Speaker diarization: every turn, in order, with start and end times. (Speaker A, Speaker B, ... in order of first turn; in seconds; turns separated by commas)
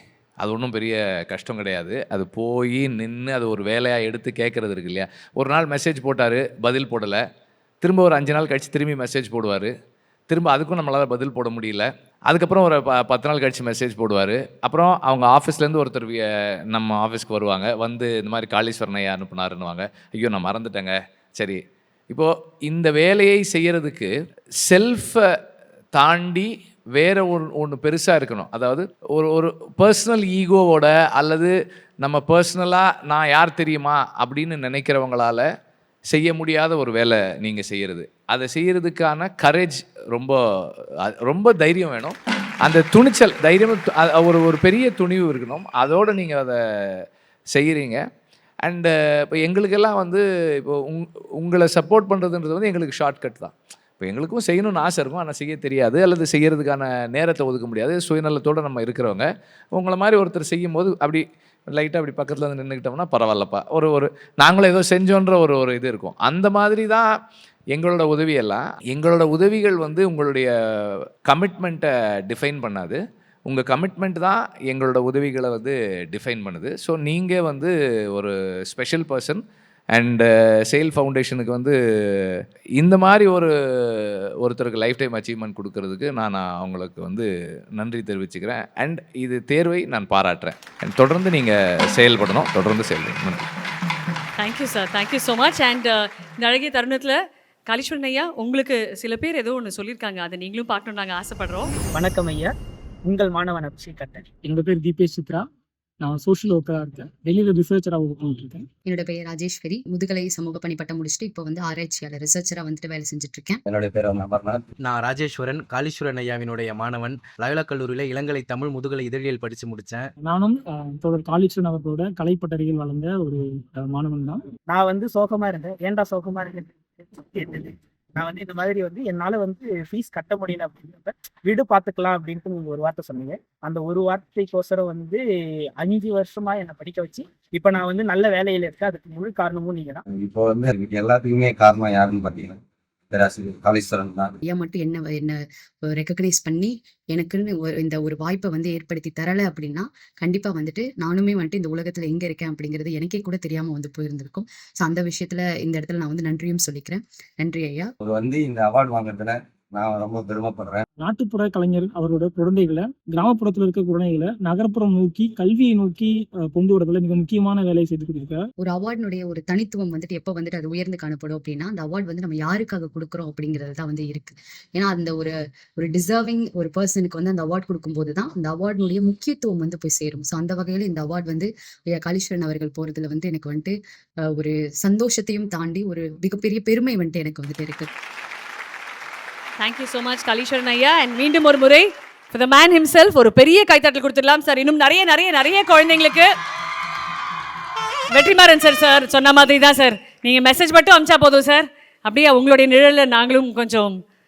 Speaker A: 0.4-7.2, Speaker A: 7.8-9.7, Speaker A: 10.3-21.6, Speaker A: 22.1-24.1, Speaker A: 24.6-25.2, Speaker A: 25.9-35.5, Speaker A: 36.1-40.4, Speaker A: 41.0-48.0, Speaker A: 48.6-67.1, Speaker A: 67.7-79.4, Speaker A: 79.9-93.5, Speaker B: 94.4-97.2, Speaker B: 97.7-101.7, Speaker C: 101.9-102.5, Speaker C: 103.1-104.3, Speaker D: 104.4-105.4, Speaker D: 106.0-108.6, Speaker E: 108.9-113.6, Speaker F: 113.7-114.7, Speaker G: 114.9-120.0, Speaker D: 120.2-124.4, Speaker C: 124.7-135.2, Speaker C: 135.8-140.0, Speaker F: 140.1-142.6, Speaker F: 143.1-144.3, Speaker E: 144.4-157.9, Speaker F: 158.0-160.8, Speaker D: 161.0-168.4, Speaker E: 168.6-183.8, Speaker E: 184.3-187.9, Speaker B: 189.6-196.3, Speaker B: 198.1-203.9